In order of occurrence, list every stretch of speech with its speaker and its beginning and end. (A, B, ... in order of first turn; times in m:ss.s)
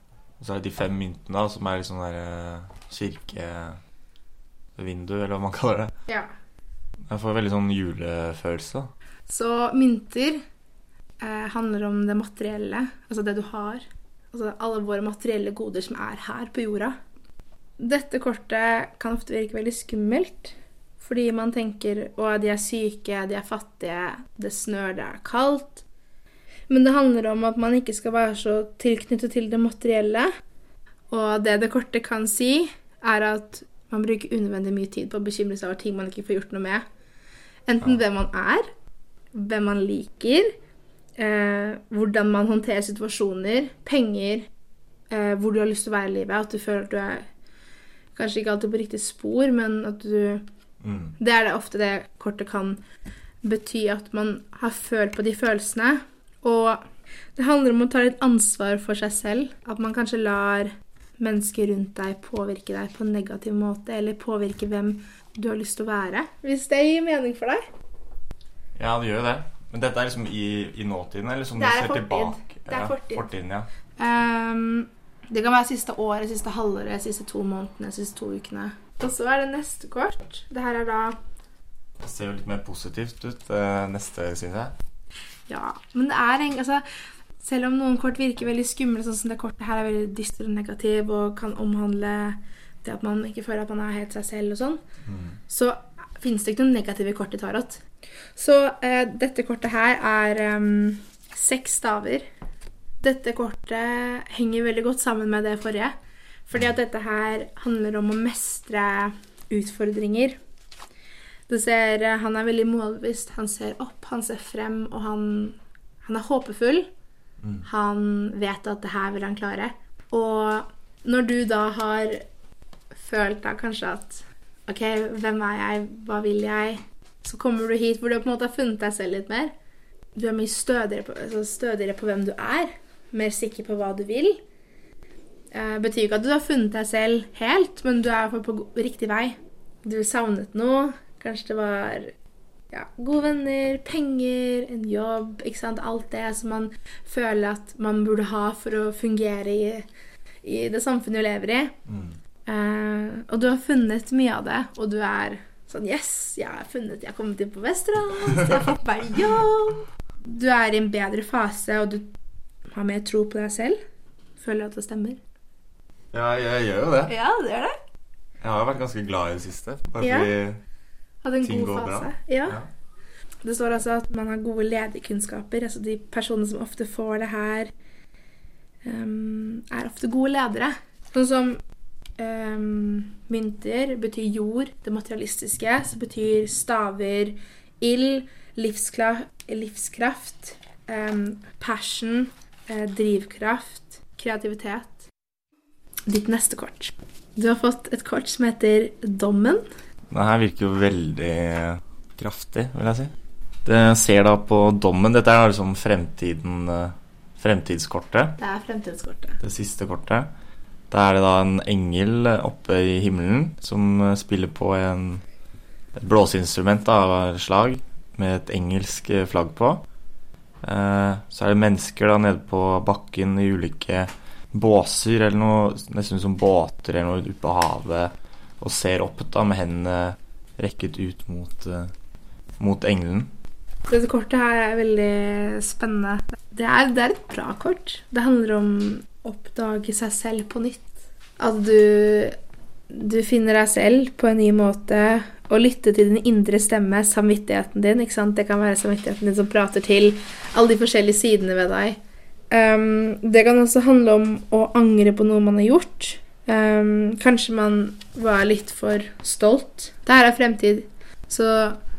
0:00.4-0:03.8 A
0:04.8-0:05.9 A
0:07.1-0:08.9 A
0:09.3-0:10.4 B
0:11.2-0:17.0 B
0:17.8-0:25.8 B
0:26.7-0:30.3 B
0:31.1-0:36.8 B
0:37.7-0:38.7 B
0:39.3-0:40.6 B
0:41.2-0:44.5 B
0:45.1-0:47.3 B
0:48.2-0:50.4 B
0:50.8-0:51.2 A
0:51.2-0:52.8 B
0:53.4-1:07.6 B
1:08.8-1:13.7 A
1:11.6-1:13.3 B
1:14.0-1:21.2 B
1:22.0-1:24.8 A
1:25.5-1:26.8 B
1:27.4-1:34.8 B
1:35.1-1:35.4 A
1:35.5-1:37.8 B
1:38.4-1:42.3 B
1:43.0-1:46.0 B
1:46.5-1:50.4 B
1:51.5-1:56.9 B
1:57.6-2:02.2 B
2:02.9-2:09.5 B
2:10.2-2:14.4 B
2:15.5-2:22.1 B
2:22.7-2:29.9 B
2:30.4-2:31.8 B
2:31.9-2:32.2 A
2:32.5-2:42.1 B
2:42.7-2:43.8 B
2:44.4-2:45.2 B
2:46.1-2:47.2 A
2:47.1-2:47.8 B
2:48.4-2:50.6 A
2:50.0-2:50.3 B
2:51.2-2:52.6 B
2:51.4-2:52.7 A
2:53.4-2:57.7 B
2:58.8-3:01.6 B
3:02.2-3:15.1 B
3:16.1-3:19.7 B
3:20.1-3:23.1 A
3:23.6-3:28.4 A
3:28.4-3:29.4 B
3:29.4-3:30.3 A
3:30.9-3:35.2 A
3:36.0-3:39.8 A
3:40.6-3:51.9 A
3:52.6-3:53.3 A
3:53.9-4:02.4 B
4:02.9-4:12.0 B
4:12.5-4:21.8 B